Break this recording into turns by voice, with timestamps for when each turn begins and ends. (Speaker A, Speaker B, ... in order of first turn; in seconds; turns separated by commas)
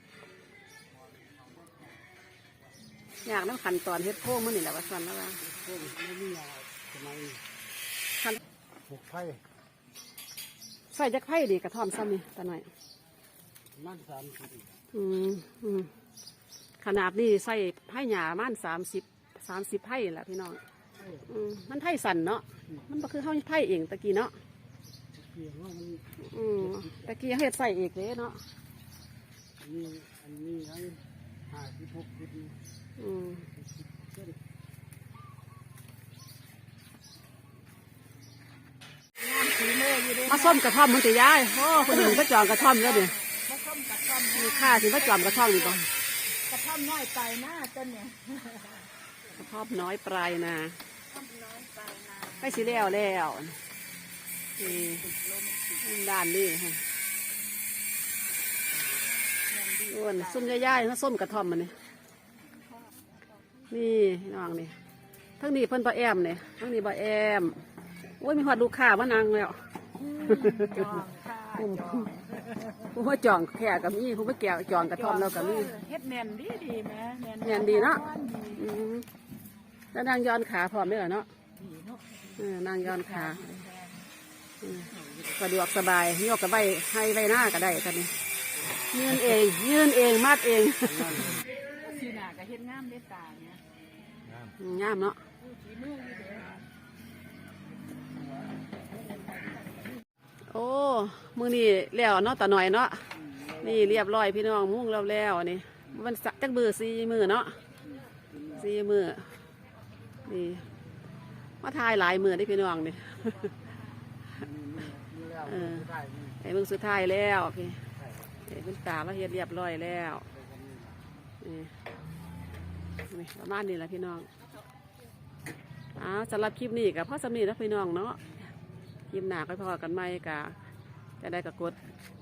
Speaker A: 3.2-5.4, Speaker B: 5.4-7.4, Speaker B: 8.9-9.4, Speaker A: 10.9-12.7, Speaker B: 13.7-14.8, Speaker A: 14.9-15.9, Speaker A: 16.8-20.6, Speaker B: 21.0-21.3, Speaker A: 21.3-24.3, Speaker B: 25.1-27.1, Speaker A: 26.2-28.4, Speaker B: 29.6-32.6, Speaker A: 33.0-33.5, Speaker B: 33.8-34.4, Speaker C: 39.2-40.6, Speaker A: 40.2-43.1, Speaker C: 41.7-45.8, Speaker A: 44.3-45.9, Speaker C: 46.4-48.9, Speaker A: 49.4-50.8, Speaker C: 51.1-53.2, Speaker A: 52.4-53.6, Speaker A: 54.6-55.1, Speaker C: 54.6-56.0, Speaker A: 55.8-56.8, Speaker C: 59.5-60.8, Speaker A: 59.9-61.8, Speaker C: 62.6-63.8, Speaker A: 63.7-64.8, Speaker A: 65.4-67.6, Speaker A: 68.2-69.6, Speaker C: 69.9-72.9, Speaker A: 70.2-71.0, Speaker A: 71.5-72.1, Speaker A: 72.9-75.8, Speaker C: 74.9-78.7, Speaker A: 77.4-79.1, Speaker A: 79.9-81.3, Speaker C: 81.5-84.0, Speaker A: 82.4-83.6, Speaker A: 84.6-88.1, Speaker A: 88.9-91.4, Speaker B: 90.8-91.5, Speaker C: 91.7-93.6, Speaker A: 94.6-95.2, Speaker C: 95.4-96.6, Speaker A: 100.5-103.1, Speaker B: 103.1-104.0, Speaker A: 103.6-107.6, Speaker B: 108.1-108.7, Speaker A: 108.5-109.3, Speaker A: 110.2-110.7, Speaker A: 111.6-113.5, Speaker B: 114.4-116.4, Speaker A: 115.5-115.9, Speaker A: 116.4-117.8, Speaker B: 118.0-118.3, Speaker A: 118.4-120.3, Speaker B: 120.3-121.0, Speaker A: 121.4-121.7, Speaker A: 123.0-124.3, Speaker A: 126.0-128.2, Speaker A: 129.1-130.6, Speaker A: 131.2-131.8